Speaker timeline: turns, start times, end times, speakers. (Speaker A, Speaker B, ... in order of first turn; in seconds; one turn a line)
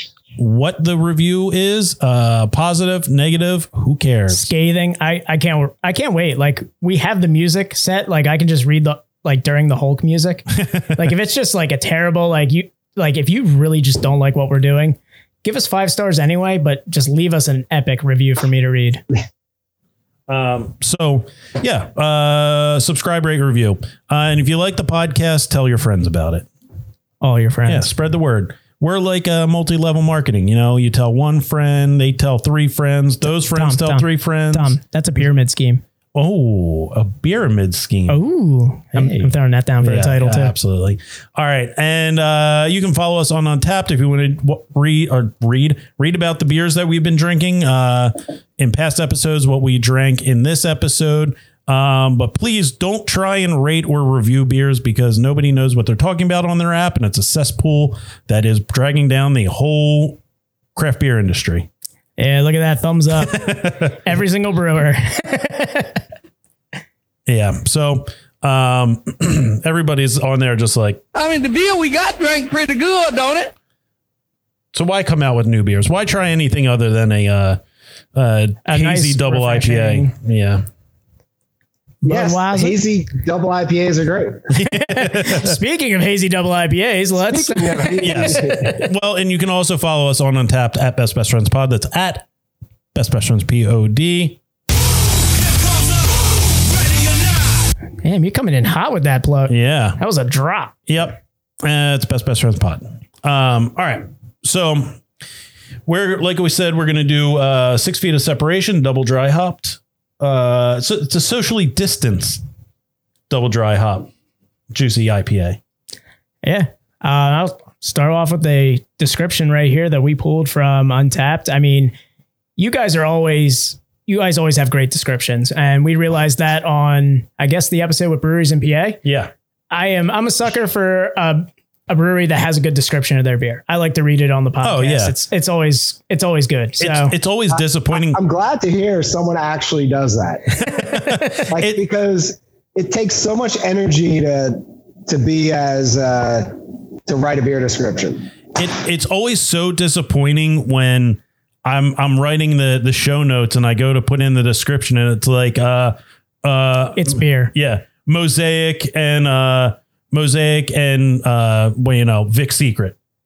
Speaker A: 0.4-4.5
Speaker B: 4.3-19.0
Speaker A: 10.6-10.9
Speaker A: 20.3-26.5
Speaker B: 27.2-27.9
Speaker A: 27.7-34.8
Speaker B: 33.5-35.8
Speaker A: 36.1-38.2
Speaker B: 38.1-40.5
Speaker A: 38.9-60.2
Speaker A: 60.8-61.7
Speaker B: 62.2-66.0
Speaker A: 63.2-64.0
Speaker A: 67.3-71.0
Speaker C: 71.2-73.5
Speaker A: 74.7-77.6
Speaker A: 78.2-80.6
Speaker B: 78.7-80.1
Speaker B: 82.0-82.8
Speaker D: 82.0-84.4
Speaker A: 84.5-85.6
Speaker B: 84.7-88.6
Speaker D: 87.3-88.8
Speaker A: 88.0-92.3
Speaker A: 92.9-94.4
Speaker A: 95.6-95.9
Speaker A: 96.8-97.5
Speaker B: 98.0-100.7
Speaker A: 99.5-100.0
Speaker A: 100.9-105.0
Speaker A: 105.9-112.4
Speaker A: 113.3-114.1
Speaker A: 114.7-115.6
Speaker B: 116.4-121.9
Speaker B: 122.6-129.0
Speaker A: 129.0-129.3
Speaker B: 129.7-137.1
Speaker A: 134.6-135.2
Speaker A: 136.8-138.2
Speaker D: 137.5-140.8
Speaker A: 140.6-141.8
Speaker D: 141.5-148.3
Speaker A: 148.6-163.0
Speaker B: 157.0-157.5